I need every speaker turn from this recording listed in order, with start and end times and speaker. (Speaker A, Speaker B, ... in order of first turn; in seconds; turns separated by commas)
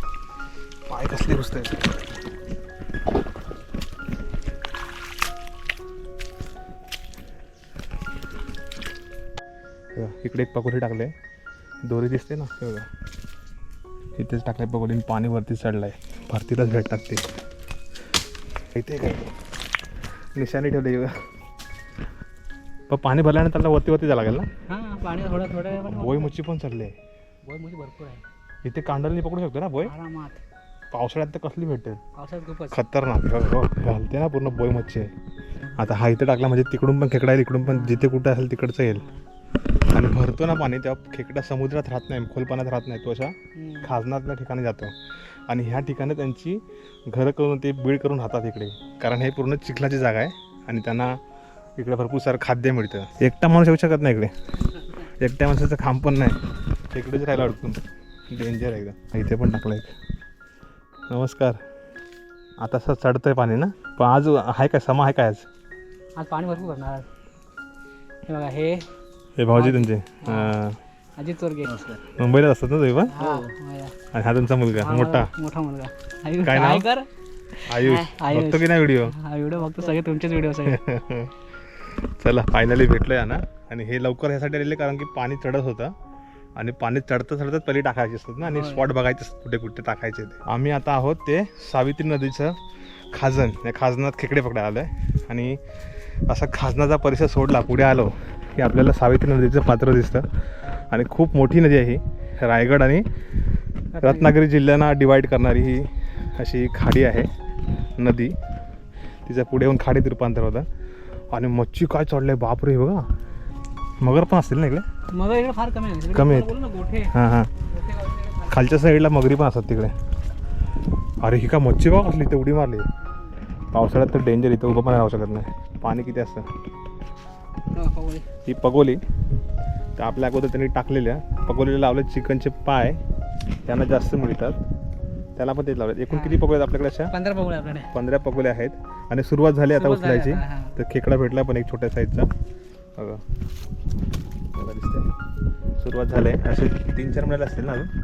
Speaker A: 0.9-1.9, Speaker A: 9.9-11.1, Speaker A: 11.8-12.9, Speaker A: 14.2-17.2, Speaker A: 18.7-19.3, Speaker A: 20.3-21.1, Speaker A: 22.9-24.5, Speaker B: 24.7-26.3, Speaker A: 25.9-26.9, Speaker B: 27.4-28.2, Speaker A: 28.6-29.9, Speaker B: 29.8-30.4, Speaker A: 30.9-32.0, Speaker B: 32.2-32.8, Speaker A: 32.7-35.1, Speaker A: 35.7-39.0, Speaker B: 37.6-38.1, Speaker A: 39.9-44.9, Speaker B: 43.5-43.9, Speaker A: 45.5-51.2, Speaker A: 51.8-54.3, Speaker A: 55.0-56.4, Speaker A: 56.9-59.9, Speaker A: 61.1-61.6, Speaker A: 62.6-65.5, Speaker B: 66.2-67.0, Speaker B: 68.3-68.8, Speaker A: 69.4-70.8, Speaker B: 69.5-70.6, Speaker B: 71.2-72.0, Speaker A: 72.1-73.2, Speaker B: 73.1-73.9, Speaker A: 74.1-75.3, Speaker B: 74.8-77.1, Speaker A: 76.4-76.9, Speaker A: 77.7-79.1, Speaker B: 77.7-80.8, Speaker A: 80.7-81.4, Speaker A: 82.0-85.9, Speaker A: 86.5-92.6, Speaker B: 88.4-88.9, Speaker A: 93.1-95.6, Speaker A: 96.3-100.2, Speaker A: 100.9-103.0, Speaker B: 103.9-104.3, Speaker A: 104.0-107.3, Speaker A: 108.0-108.3, Speaker A: 109.2-110.7, Speaker A: 111.3-113.0, Speaker A: 114.0-114.8, Speaker B: 115.1-117.1, Speaker A: 116.1-116.5, Speaker A: 117.1-117.5, Speaker B: 117.7-118.6, Speaker A: 118.5-119.9, Speaker A: 121.2-122.9, Speaker A: 123.7-126.5, Speaker B: 127.7-128.2, Speaker A: 128.4-129.0, Speaker A: 130.0-133.0, Speaker A: 133.7-134.6, Speaker A: 135.3-137.1, Speaker B: 136.1-136.4, Speaker B: 137.1-137.9, Speaker A: 137.9-142.3, Speaker B: 139.7-140.7, Speaker A: 143.0-143.2, Speaker A: 144.5-145.1, Speaker A: 145.8-147.9